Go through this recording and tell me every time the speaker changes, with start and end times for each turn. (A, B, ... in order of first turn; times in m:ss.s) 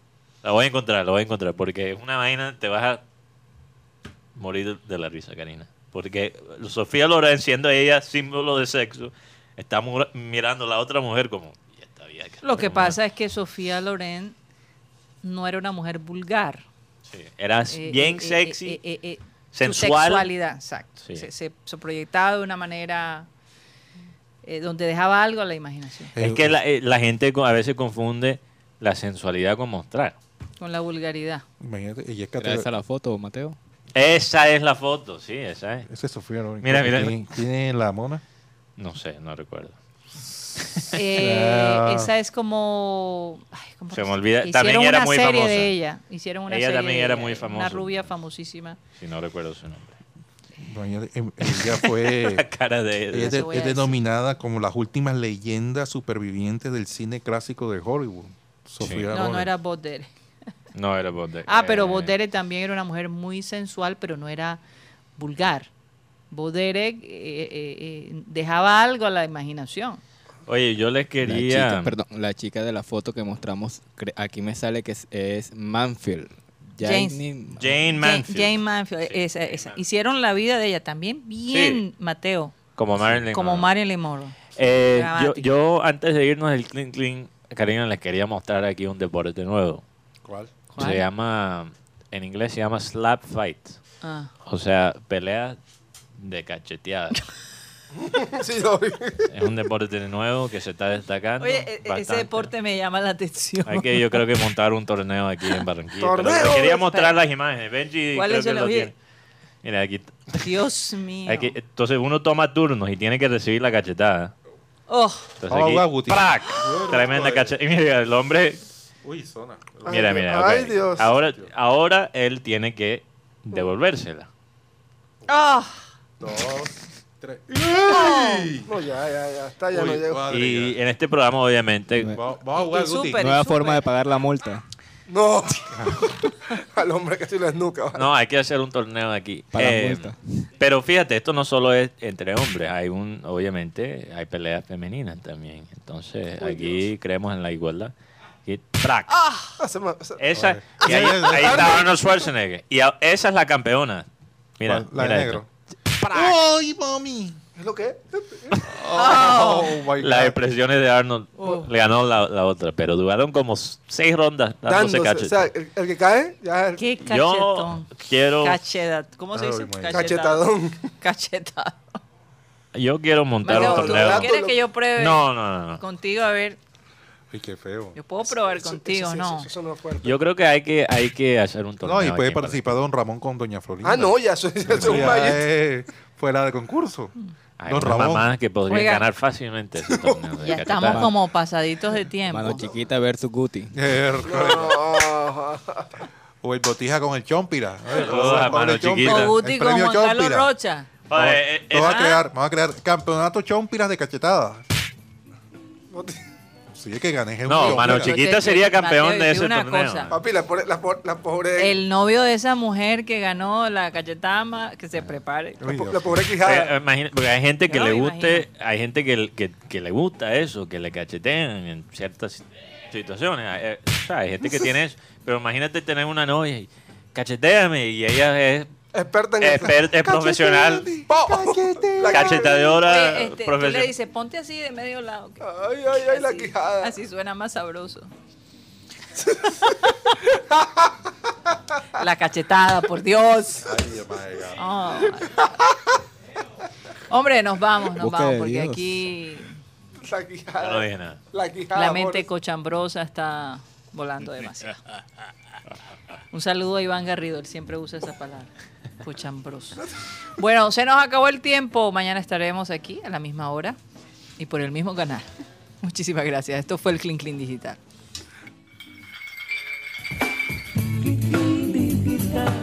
0:00.4-0:03.0 A
0:04.4-0:13.0 A
0:12.4-0:14.3 B
0:15.2-0:16.6 B
0:17.1-0:18.8 A
0:17.7-0:23.3 B
0:19.5-0:20.3 A
0:24.4-0:26.1 B
0:26.1-0:26.6 C
0:26.2-0:30.2 A
0:30.6-0:31.4 B
0:31.6-0:32.7 C
0:32.4-0:33.6 D
0:33.9-0:35.9 A
0:35.9-0:38.2 C
0:36.6-0:37.2 A
0:38.8-0:39.8 A
0:40.2-0:42.1 C
0:40.9-0:48.8 B
0:43.9-0:45.7 A
0:46.5-0:48.1 A
0:49.0-0:50.0 A
0:50.6-0:52.4 C
0:51.4-0:53.4 A
0:53.1-0:59.5 C
0:53.1-0:54.0 B
0:58.8-0:59.1 A
0:59.1-1:00.1 B
1:00.7-1:02.1 A
1:01.5-1:04.6 B
1:05.2-1:05.7 B
1:06.3-1:10.0 B
1:10.5-1:11.9 A
1:11.2-1:17.8 D
1:16.8-1:17.2 B
1:17.6-1:19.8 A
1:18.0-1:22.5 B
1:21.5-1:21.8 A
1:22.8-1:23.7 A
1:23.3-1:25.5 B
1:24.6-1:29.8 A
1:30.2-1:30.5 C
1:30.7-1:31.0 B
1:30.8-1:33.8 A
1:34.0-1:34.3 B
1:34.4-1:35.6 A
1:36.2-1:37.2 A
1:38.0-1:39.3 E
1:39.3-1:42.5 A
1:41.4-1:44.2 B
1:43.6-1:48.9 A
1:46.0-1:46.8 E
1:46.6-1:47.1 B
1:48.1-1:48.9 B
1:49.6-1:50.6 A
1:50.4-1:51.6 B
1:51.3-1:54.3 A
1:54.9-1:55.3 B
1:55.4-1:58.6 A
1:55.5-1:57.5 C
1:59.0-2:00.0 C
1:59.8-2:01.0 E
1:59.8-2:04.3 A
2:05.3-2:05.8 B
2:06.2-2:08.7 C
2:07.9-2:08.5 B
2:08.6-2:10.2 E
2:09.7-2:10.8 C
2:10.3-2:12.2 A
2:12.1-2:13.4 C
2:12.5-2:13.8 B
2:13.2-2:14.6 D
2:15.1-2:18.1 E
2:15.8-2:16.0 C
2:17.9-2:27.9 A
2:19.5-2:20.4 D
2:26.4-2:26.8 E
2:28.4-2:29.2 A
2:29.1-2:29.6 B
2:29.6-2:30.2 E
2:30.2-2:34.0 A
2:30.3-2:31.9 C
2:30.8-2:31.9 E
2:34.6-2:35.4 A
2:34.6-2:35.4 C
2:36.0-2:37.4 C
2:36.0-2:36.3 A
2:37.6-2:38.5 E
2:38.6-2:40.4 C
2:39.0-2:39.8 B
2:39.3-2:45.5 A
2:41.4-2:41.7 B
2:44.7-2:46.8 E
2:46.8-2:50.5 B
2:47.0-2:48.6 A
2:49.3-2:50.1 C
2:49.9-2:50.9 E
2:51.0-2:52.0 B
2:52.7-2:54.3 A
2:53.4-2:55.2 B
2:53.5-2:54.5 E
2:55.0-2:55.8 A
2:55.8-2:56.6 B
2:57.3-2:58.0 C
2:58.0-2:59.5 B
2:58.4-3:00.2 E
3:00.0-3:02.7 A
3:01.8-3:07.1 C
3:03.8-3:05.4 E
3:04.8-3:05.2 A
3:07.6-3:11.1 A
3:07.7-3:08.3 C
3:08.7-3:09.0 B
3:10.4-3:12.7 B
3:10.8-3:11.1 D
3:12.2-3:13.8 D
3:13.7-3:15.1 C
3:14.2-3:15.9 E
3:16.4-3:20.5 C
3:17.9-3:19.3 A
3:19.0-3:20.9 B
3:21.1-3:22.2 A
3:21.1-3:24.6 C
3:25.9-3:26.2 E
3:26.7-3:28.2 C
3:27.5-3:30.2 A
3:27.6-3:30.1 B
3:30.1-3:31.8 E
3:31.6-3:35.6 B
3:35.6-3:36.3 C
3:35.6-3:36.7 E
3:36.4-3:48.7 A
3:37.7-3:38.5 B
3:48.9-3:52.8 E
3:49.4-3:50.9 A
3:50.8-3:52.4 C
3:52.1-3:53.9 A
3:52.8-3:58.1 B
3:55.4-3:56.9 E
3:59.2-3:59.7 E
4:00.2-4:00.9 E
4:02.0-4:03.7 B
4:03.6-4:04.6 C
4:04.6-4:05.6 B
4:07.1-4:09.6 B
4:08.0-4:08.8 D
4:10.0-4:12.2 E
4:10.6-4:11.2 A
4:11.7-4:14.8 B
4:16.3-4:18.5 B
4:19.0-4:19.8 B
4:20.4-4:23.8 B
4:24.4-4:25.3 B
4:25.8-4:27.8 B